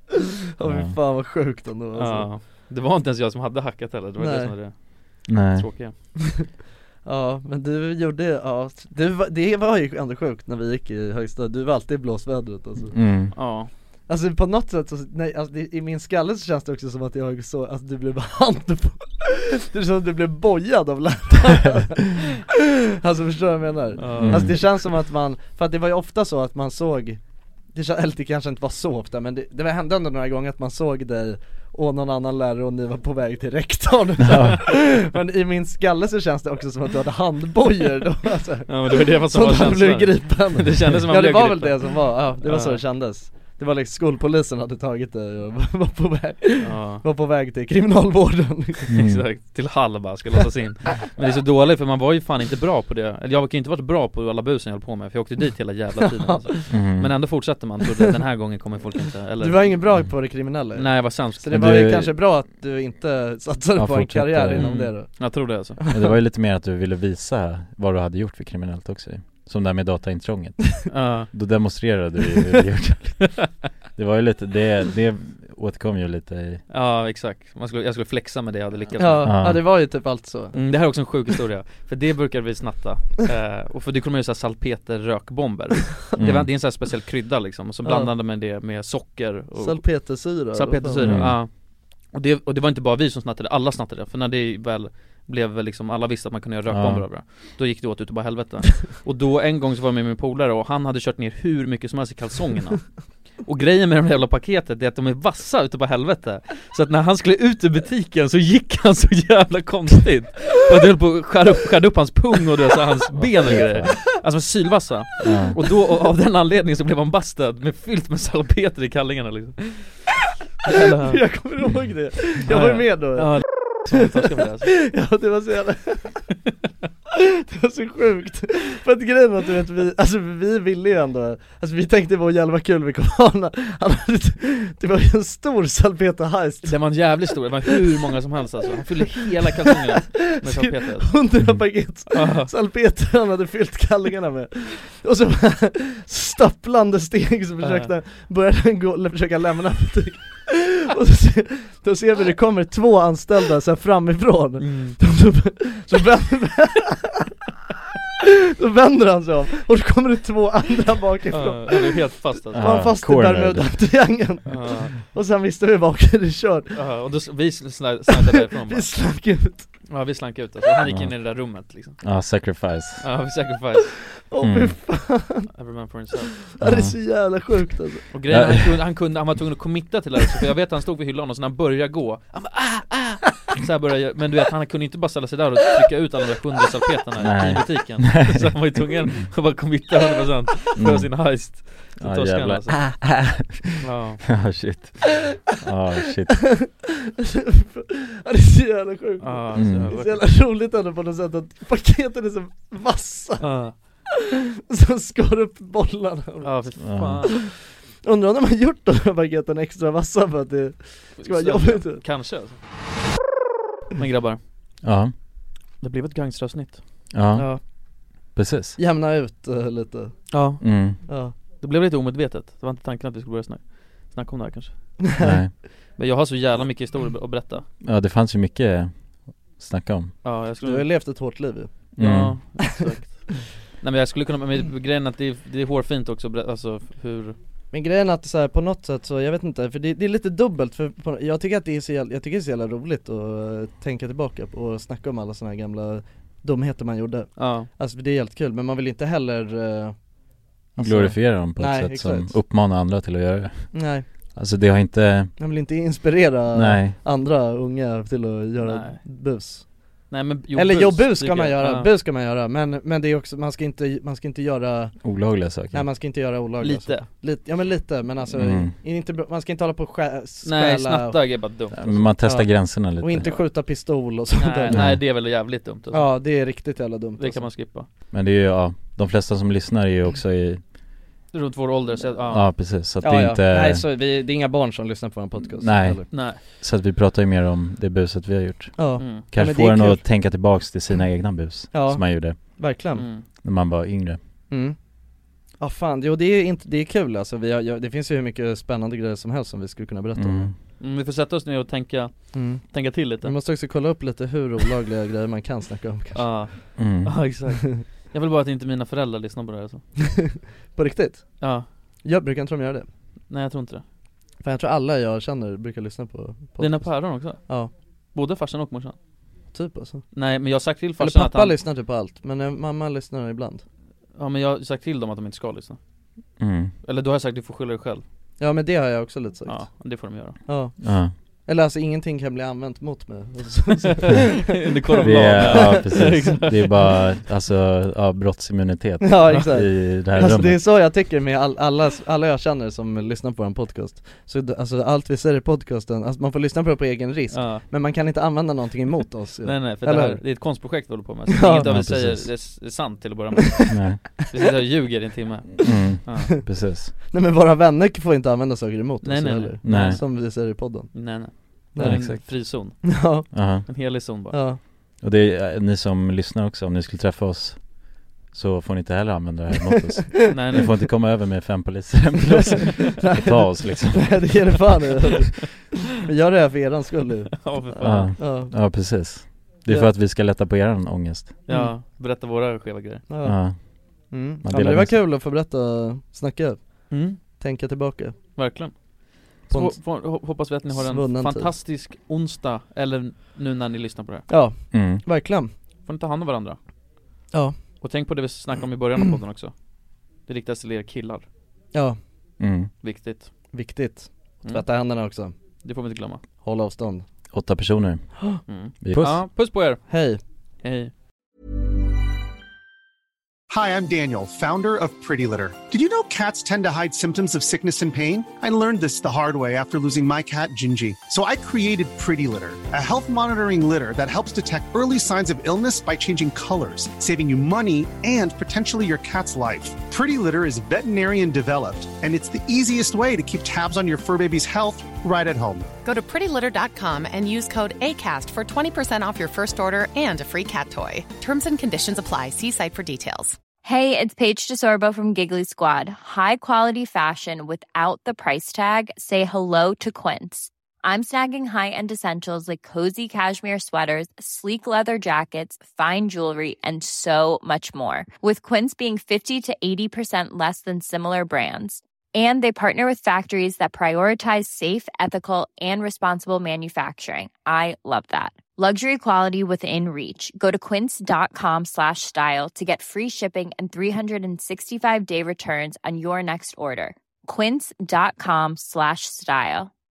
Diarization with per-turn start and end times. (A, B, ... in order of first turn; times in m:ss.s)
0:00.6-0:02.3 A
0:00.6-0:01.0 B
0:02.0-0:05.9 C
0:04.2-0:04.5 A
0:05.3-0:05.7 B
0:07.0-0:13.0 A
0:12.9-0:13.3 B
0:13.3-0:13.7 C
0:14.1-0:27.2 A
0:24.0-0:24.8 C
0:24.2-0:24.6 B
0:27.7-0:48.9 A
0:34.2-0:34.7 B
0:38.7-0:42.8 C
0:46.6-0:47.0 C
0:48.9-0:49.2 B
0:48.9-1:00.1 C
0:56.2-0:56.6 A
0:56.7-0:57.1 B
0:59.4-1:06.1 A
1:00.8-1:01.5 C
1:01.5-1:02.1 B
1:03.8-1:04.9 B
1:04.6-1:05.8 C
1:05.9-1:13.4 B
1:10.9-1:11.3 C
1:14.0-1:16.6 B
1:16.7-1:19.4 C
1:19.0-1:20.6 A
1:19.2-1:19.6 B
1:20.5-1:42.9 C
1:26.2-1:26.5 B
1:29.6-1:31.4 A
1:31.0-1:31.4 B
1:36.7-1:37.1 B
1:43.4-2:00.0 C
1:53.2-1:54.0 B
1:55.2-1:55.6 B
2:00.7-2:01.2 C
2:00.7-2:04.2 A
2:02.5-2:04.7 C
2:04.7-2:06.2 A
2:07.2-2:17.2 A
2:16.6-2:21.2 C
2:19.2-2:19.5 A
2:20.1-2:37.3 A
2:22.1-2:22.5 C
2:27.6-2:27.9 C
2:34.6-2:35.0 C
2:38.3-2:46.8 A
2:41.3-2:42.7 C
2:42.5-2:43.7 B
2:44.5-2:45.0 C
2:46.7-2:48.9 C
2:48.1-2:49.7 A
2:49.9-2:52.0 C
2:50.8-2:51.1 B
2:52.0-2:53.0 B
2:53.0-2:54.0 C
2:54.2-2:55.5 A
2:54.4-2:54.8 B
2:55.5-2:56.4 C
2:56.5-2:58.1 A
2:56.6-2:57.0 B
2:58.1-3:13.1 C
2:58.3-2:58.8 B
3:07.2-3:08.5 B
3:10.8-3:16.6 B
3:13.8-3:14.4 C
3:16.4-3:16.7 A
3:17.2-3:23.9 A
3:19.2-3:20.3 C
3:19.6-3:19.9 B
3:23.4-3:23.8 C
3:24.7-3:32.0 A
3:26.4-3:27.4 C
3:26.8-3:27.3 B
3:31.2-3:32.6 C
3:34.0-3:34.4 C
3:34.8-3:35.1 B
3:35.8-3:36.8 C
3:37.1-3:37.5 B
3:37.4-3:37.6 A
3:38.4-3:38.8 B
3:38.8-3:40.4 A
3:40.3-3:45.0 C
3:40.6-3:41.0 B
3:41.1-3:41.3 A
3:45.2-3:45.5 B
3:46.0-3:47.6 C
3:47.8-3:48.9 B
3:49.6-3:50.1 B
3:50.2-3:50.9 C
3:50.6-3:51.7 A
3:52.0-3:52.6 B
3:52.0-3:57.4 C
3:57.7-4:10.0 A
4:07.4-4:07.7 C
4:10.8-4:13.8 B
4:10.8-4:11.2 C
4:11.6-4:12.3 A
4:13.7-4:14.0 A
4:14.4-4:15.3 B
4:15.4-4:19.9 A
4:16.5-4:17.0 B
4:18.6-4:19.0 C
4:20.1-4:21.9 C
4:20.6-4:25.0 A
4:25.0-4:25.8 B
4:25.7-4:31.2 A
4:26.6-4:27.1 C
4:28.3-4:28.7 B
4:30.4-4:32.1 C
4:31.7-4:33.3 B
4:32.2-4:35.0 A
4:34.4-4:36.1 C
4:34.7-4:35.0 B
4:35.9-4:37.5 A
4:37.2-4:37.9 C
4:38.1-4:40.6 B
4:41.3-4:42.5 C
4:42.3-4:43.9 B
4:43.0-4:46.1 A
4:45.6-4:52.4 B
4:46.1-4:46.4 C
4:48.8-4:50.0 A
4:49.0-4:49.2 C
4:51.7-4:53.1 A
4:53.0-4:53.2 C
4:53.4-4:54.2 B
4:54.5-4:54.8 A
4:55.6-5:00.5 A
5:00.2-5:00.5 B
5:00.8-5:03.4 C
5:02.3-5:06.7 A
5:06.2-5:09.8 C
5:06.8-5:07.2 B
5:10.8-5:11.4 A
5:11.4-5:11.7 C
5:12.0-5:12.9 A
5:13.3-5:13.8 C
5:14.4-5:17.7 A
5:16.6-5:17.6 C
5:18.1-5:19.0 C
5:19.5-5:20.2 A
5:20.1-5:21.6 C
5:21.0-5:23.6 A
5:24.2-5:25.8 C
5:26.4-5:26.7 B
5:26.8-5:28.0 C
5:28.4-5:29.7 A
5:29.5-5:30.4 C
5:30.5-5:30.8 A
5:30.8-5:31.1 B
5:31.5-5:34.4 A
5:33.8-5:36.8 C
5:34.9-5:35.8 A
5:35.0-5:40.6 B
5:39.0-5:50.2 A
5:47.3-5:47.6 C
5:49.4-5:56.4 C
5:51.3-5:51.7 A
5:51.6-5:52.3 B
5:53.7-5:54.1 B
5:55.6-5:56.9 B
5:57.1-6:03.3 A
5:59.0-6:00.2 C
5:59.6-6:00.0 B
6:00.9-6:03.0 C
6:01.8-6:02.2 B
6:03.3-6:03.6 B
6:03.6-6:04.4 C
6:04.3-6:04.6 A
6:05.0-6:07.6 B
6:08.3-6:14.6 B
6:09.7-6:10.3 A
6:10.3-6:10.7 C
6:12.3-6:17.6 A
6:17.4-6:18.2 C
6:17.8-6:21.3 B
6:18.2-6:18.5 A
6:21.5-6:23.0 C
6:23.1-6:23.4 A
6:23.2-6:23.6 B
6:24.1-6:28.2 A
6:24.4-6:25.0 B
6:26.9-6:27.2 C
6:28.4-6:28.8 C
6:29.4-6:34.3 C
6:29.5-6:29.8 A
6:30.7-6:31.5 A
6:34.3-6:35.5 A
6:34.7-6:35.0 B
6:35.9-6:36.6 C
6:37.8-6:39.6 C
6:40.3-6:41.3 C
6:42.4-6:42.7 B
6:42.8-6:43.3 C
6:43.5-6:45.3 A
6:45.6-6:46.2 C
6:46.4-6:47.0 A
6:47.3-6:48.1 B
6:48.5-6:49.9 C
6:48.8-6:49.2 B
6:49.9-6:50.2 A
6:50.6-6:50.9 C
6:53.5-7:15.7 D
7:15.8-7:23.4 E
7:23.6-7:59.7 F